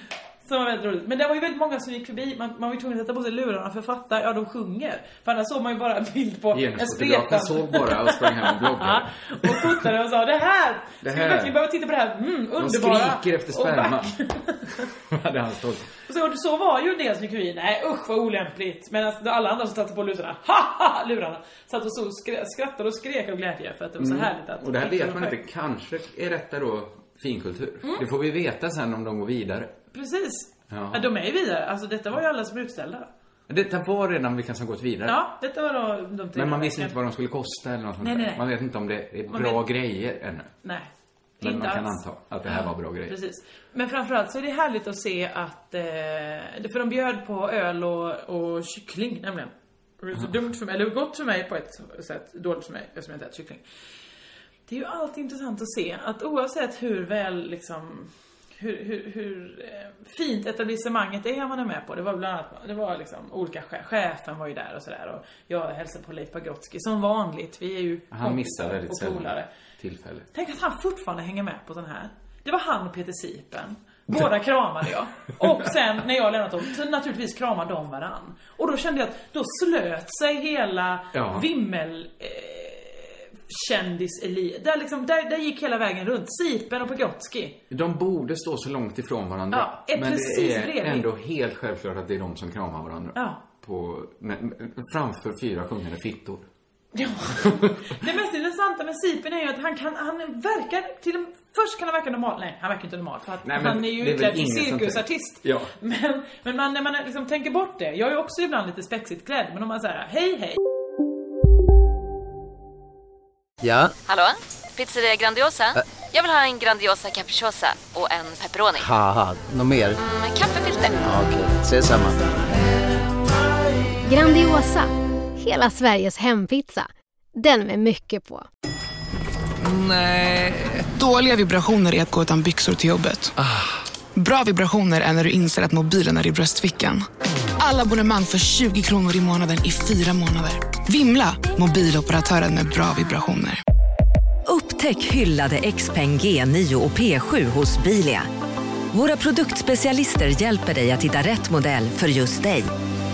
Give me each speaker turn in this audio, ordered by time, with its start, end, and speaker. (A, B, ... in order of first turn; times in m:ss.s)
0:00.4-0:14.9 A
0:06.5-0:09.8 B
0:11.0-0:11.6 B
0:12.6-0:14.2 B
0:14.9-0:16.0 B
0:16.1-0:25.4 A
0:24.0-0:29.7 B
0:29.9-0:33.1 A
0:30.7-0:31.1 B
0:33.5-0:35.2 B
0:35.1-0:36.9 A
0:36.3-0:40.5 B
0:38.0-0:38.4 A
0:39.3-0:39.6 A
0:40.6-0:40.9 A
0:41.4-0:43.2 B
0:41.4-0:53.6 A
0:54.7-1:09.5 A
1:08.1-1:10.3 B
1:10.3-1:27.6 A
1:21.1-1:21.5 B
1:27.7-1:36.5 B
1:29.5-1:31.1 A
1:33.2-1:33.4 A
1:36.9-1:50.6 A
1:43.4-1:45.7 B
1:53.6-1:53.9 C
1:54.1-1:58.9 D
1:58.8-2:00.0 C
2:00.0-2:01.0 D
2:01.0-2:02.2 C
2:04.0-2:08.5 E
2:10.9-2:13.3 F
2:14.2-2:17.0 F
2:17.6-2:23.6 F
2:24.5-2:28.3 G
2:28.9-2:32.7 G